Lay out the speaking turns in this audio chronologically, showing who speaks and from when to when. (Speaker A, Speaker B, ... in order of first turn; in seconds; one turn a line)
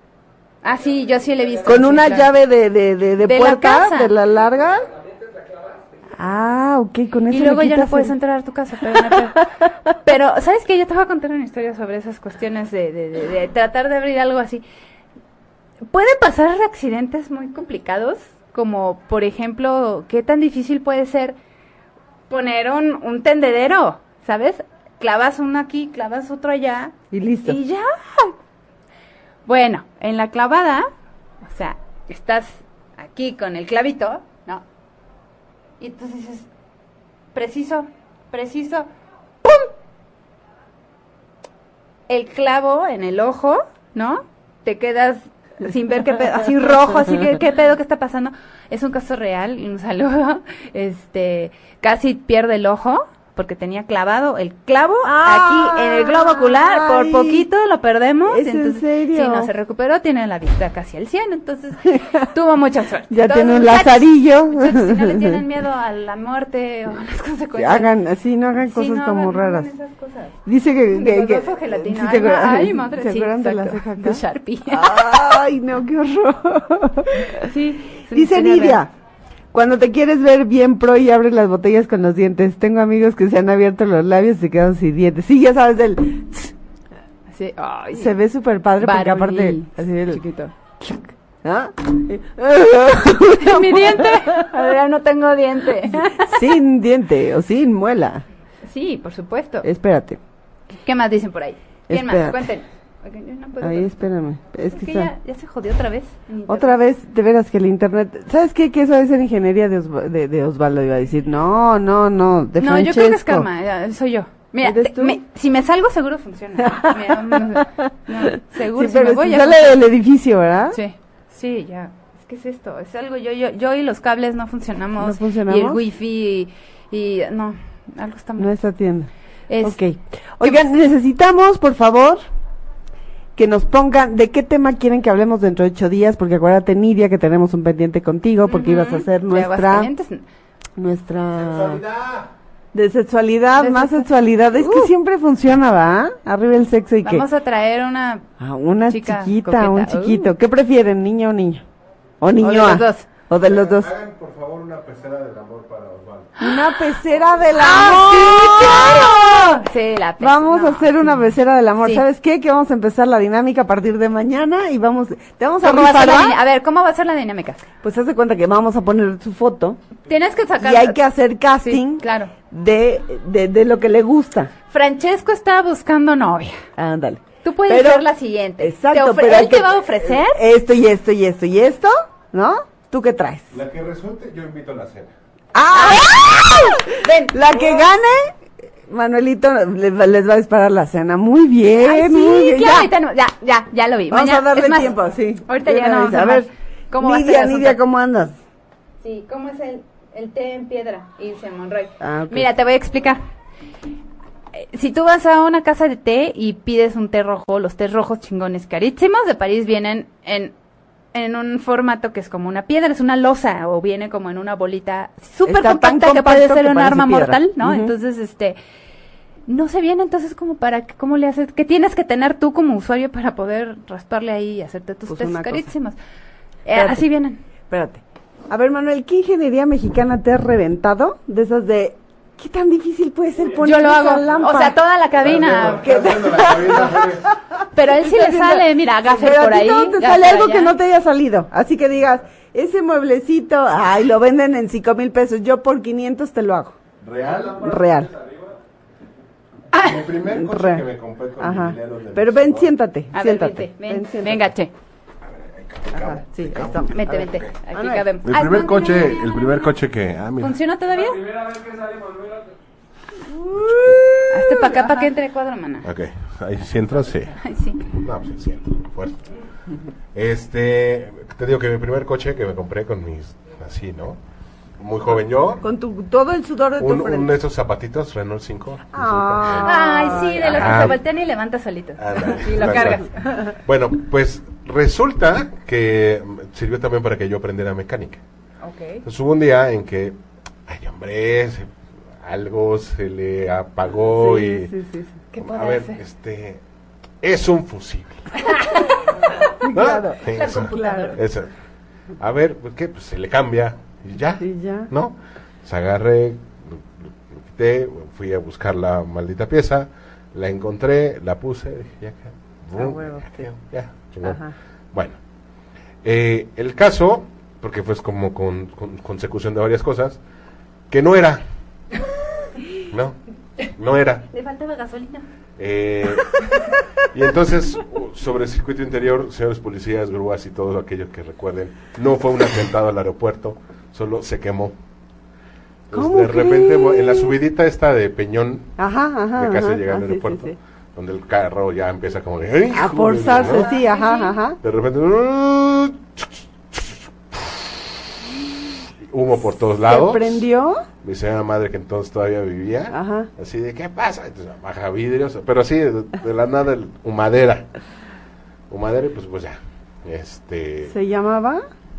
Speaker A: 0.6-2.3
Speaker B: 1.6-4.9
Speaker A: 3.2-4.1
Speaker B: 6.2-8.2
Speaker A: 7.3-9.4
Speaker B: 8.8-9.4
Speaker A: 9.9-14.6
Speaker A: 15.9-21.4
Speaker A: 22.3-28.4
Speaker B: 27.1-27.6
Speaker A: 29.5-30.9
Speaker A: 31.4-34.6
Speaker A: 35.8-36.5
Speaker A: 37.3-38.9
Speaker A: 39.4-39.7
Speaker A: 42.1-67.9
Speaker B: 55.0-57.5
Speaker B: 58.3-59.5
Speaker B: 63.1-65.4
Speaker B: 67.6-69.7
Speaker A: 68.7-70.4
Speaker B: 70.5-77.5
Speaker A: 70.9-75.0
Speaker A: 77.3-78.8
Speaker B: 78.1-78.9
Speaker B: 79.5-86.5
Speaker A: 87.3-88.1
Speaker B: 87.9-90.2
Speaker A: 88.8-90.5
Speaker B: 90.8-94.6
Speaker A: 93.4-96.5
Speaker B: 95.9-98.2
Speaker A: 98.7-99.7
Speaker B: 99.6-100.2
Speaker A: 100.8-103.9
Speaker B: 101.9-102.4
Speaker B: 103.6-105.1
Speaker A: 104.7-106.7
Speaker B: 106.5-113.5
Speaker A: 112.6-119.8
Speaker B: 114.6-115.2
Speaker B: 116.7-117.8
Speaker B: 118.3-120.8
Speaker A: 120.7-128.5
Speaker B: 125.0-125.8
Speaker B: 128.4-129.1
Speaker A: 129.5-129.8
Speaker B: 129.6-132.2
Speaker B: 133.4-139.9
Speaker A: 138.5-140.2
Speaker B: 140.8-141.8
Speaker C: 141.4-142.3
Speaker B: 142.7-147.3
Speaker A: 143.6-144.9
Speaker A: 147.0-148.3
Speaker B: 148.4-151.7
Speaker A: 148.9-150.3
Speaker B: 152.2-153.9
Speaker A: 152.4-153.1
Speaker C: 153.4-156.4
Speaker B: 156.4-159.7
Speaker A: 157.6-161.2
Speaker B: 160.2-166.4
Speaker A: 165.6-167.7
Speaker B: 167.8-169.8
Speaker A: 170.1-171.0
Speaker B: 170.6-174.5
Speaker A: 171.6-172.3
Speaker A: 174.7-176.6
Speaker B: 176.8-178.1
Speaker A: 177.4-180.4
Speaker B: 178.6-183.5
Speaker C: 183.5-185.1
Speaker B: 185.5-192.9
Speaker A: 185.7-187.8
Speaker A: 191.8-197.8
Speaker B: 194.1-198.4
Speaker A: 199.0-203.2
Speaker B: 202.0-202.5
Speaker A: 204.5-210.5
Speaker A: 211.1-218.6
Speaker B: 215.5-217.9
Speaker A: 219.5-226.0
Speaker B: 225.1-225.7
Speaker A: 226.7-227.4
Speaker B: 226.7-227.1
Speaker B: 227.7-234.8
Speaker A: 233.6-237.1
Speaker C: 235.2-237.3
Speaker B: 235.4-246.8
Speaker A: 237.7-240.8
Speaker C: 247.0-247.7
Speaker D: 247.2-248.6
Speaker B: 247.6-248.1
Speaker C: 249.7-252.7
Speaker B: 250.3-250.8
Speaker B: 251.4-254.4
Speaker A: 253.1-254.7
Speaker C: 255.3-256.9
Speaker B: 255.9-258.1
Speaker A: 256.9-259.7
Speaker C: 258.2-260.6
Speaker A: 260.4-261.2
Speaker D: 260.9-262.6
Speaker B: 263.2-265.1
Speaker C: 263.6-264.2
Speaker A: 264.3-265.9
Speaker C: 265.8-269.2
Speaker A: 267.4-267.8
Speaker C: 270.1-274.2
Speaker C: 274.8-275.6
Speaker B: 275.6-277.3
Speaker C: 276.8-281.0
Speaker B: 278.9-281.0
Speaker A: 279.6-283.2
Speaker C: 282.0-288.2
Speaker B: 282.6-282.9
Speaker A: 288.6-289.0
Speaker C: 289.1-290.1
Speaker C: 290.7-291.7
Speaker C: 292.2-294.7
Speaker B: 294.1-295.3
Speaker A: 295.3-296.0
Speaker C: 295.4-296.6
Speaker C: 297.2-298.4
Speaker A: 298.4-298.9
Speaker B: 299.6-301.3
Speaker C: 299.7-301.5
Speaker A: 300.3-301.2
Speaker C: 302.2-306.8
Speaker B: 304.4-304.9
Speaker C: 307.5-315.2
Speaker B: 312.8-313.5
Speaker B: 314.2-314.5
Speaker C: 316.0-320.2
Speaker C: 320.9-321.4
Speaker C: 322.9-323.2
Speaker C: 323.7-324.2
Speaker A: 324.3-325.3
Speaker C: 325.6-326.4
Speaker C: 327.1-334.8
Speaker C: 335.9-338.7
Speaker B: 335.9-337.4
Speaker B: 338.8-340.6
Speaker C: 339.4-343.7
Speaker B: 342.7-344.6
Speaker A: 343.4-344.4
Speaker C: 344.6-347.7
Speaker C: 349.1-350.4
Speaker B: 349.9-350.8
Speaker C: 351.0-357.7
Speaker B: 352.9-353.3
Speaker C: 358.7-360.9
Speaker B: 360.9-361.6